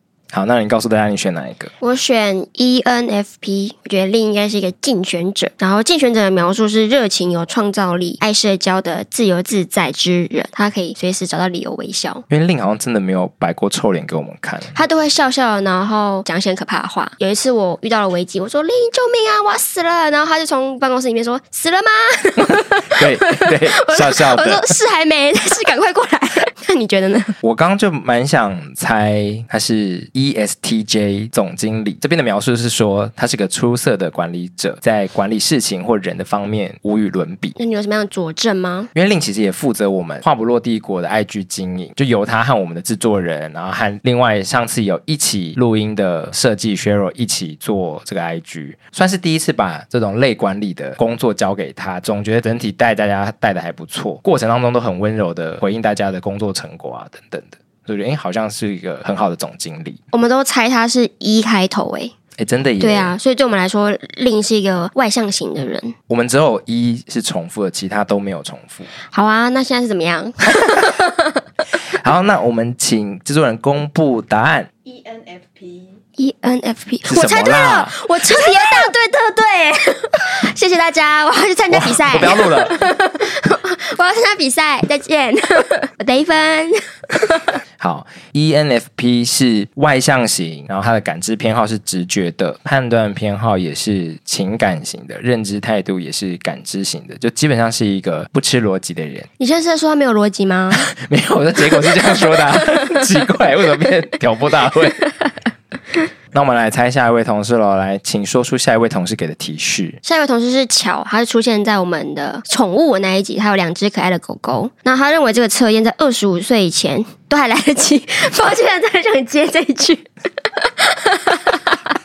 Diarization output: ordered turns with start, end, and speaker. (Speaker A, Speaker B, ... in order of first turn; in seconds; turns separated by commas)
Speaker A: 0.3-1.7, Speaker B: 1.8-12.2, Speaker A: 12.3-14.8, Speaker B: 14.7-27.3, Speaker A: 22.9-24.6, Speaker A: 27.4-37.6, Speaker B: 37.6-38.9, Speaker A: 38.9-60.0, Speaker B: 60.1-62.1, Speaker A: 62.4-63.1, Speaker B: 62.8-66.0, Speaker A: 66.1-68.9, Speaker B: 69.1-71.4, Speaker A: 72.0-74.7, Speaker B: 76.2-87.5, Speaker A: 77.1-78.7, Speaker A: 81.7-82.8, Speaker A: 87.8-99.3, Speaker B: 99.4-100.9, Speaker A: 100.7-105.0, Speaker A: 106.3-110.0, Speaker B: 110.0-121.8